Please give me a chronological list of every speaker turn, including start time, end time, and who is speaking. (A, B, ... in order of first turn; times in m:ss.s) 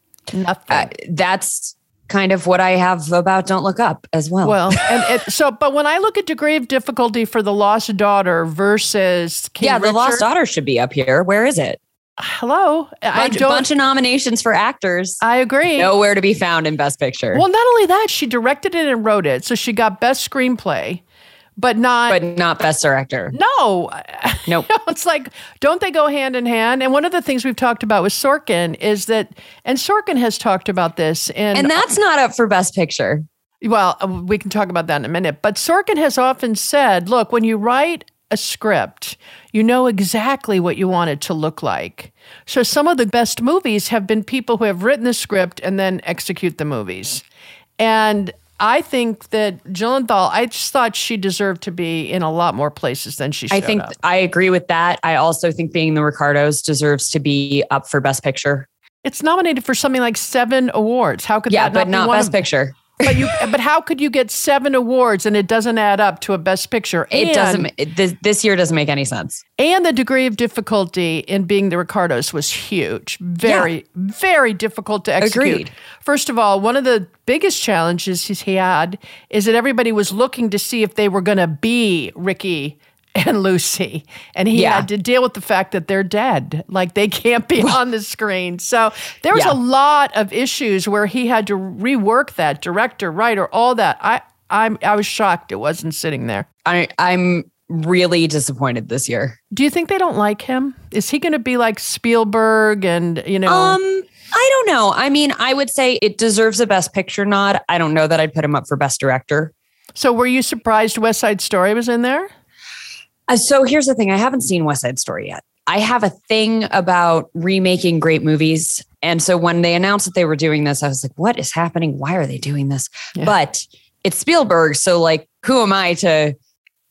0:00.3-0:00.9 A
0:00.7-0:04.7 B
0:04.4-0:10.2 A
0:09.6-0:11.8 B
0:12.2-0:13.7 A
0:13.1-0:15.2 B
0:15.2-0:15.9 A
0:15.8-0:17.4 B
0:17.3-0:21.0 A
0:21.6-0:22.2 A
0:22.1-0:23.3 B
0:23.3-0:31.8 A
0:31.5-0:33.2 B
0:33.6-0:47.2 A
0:47.8-0:53.9 A
0:53.5-0:58.7 B
0:59.0-1:02.4 A
1:01.5-1:03.4 B
1:03.0-1:07.7 A
1:07.1-1:09.4 B
1:09.6-1:36.4 A
1:13.4-1:13.7 B
1:15.2-1:15.7 B
1:24.5-1:24.9 B
1:36.6-1:39.4 B
1:39.5-1:43.8 A
1:43.4-1:49.5 B
1:50.0-1:52.3 A
1:53.3-2:06.3 B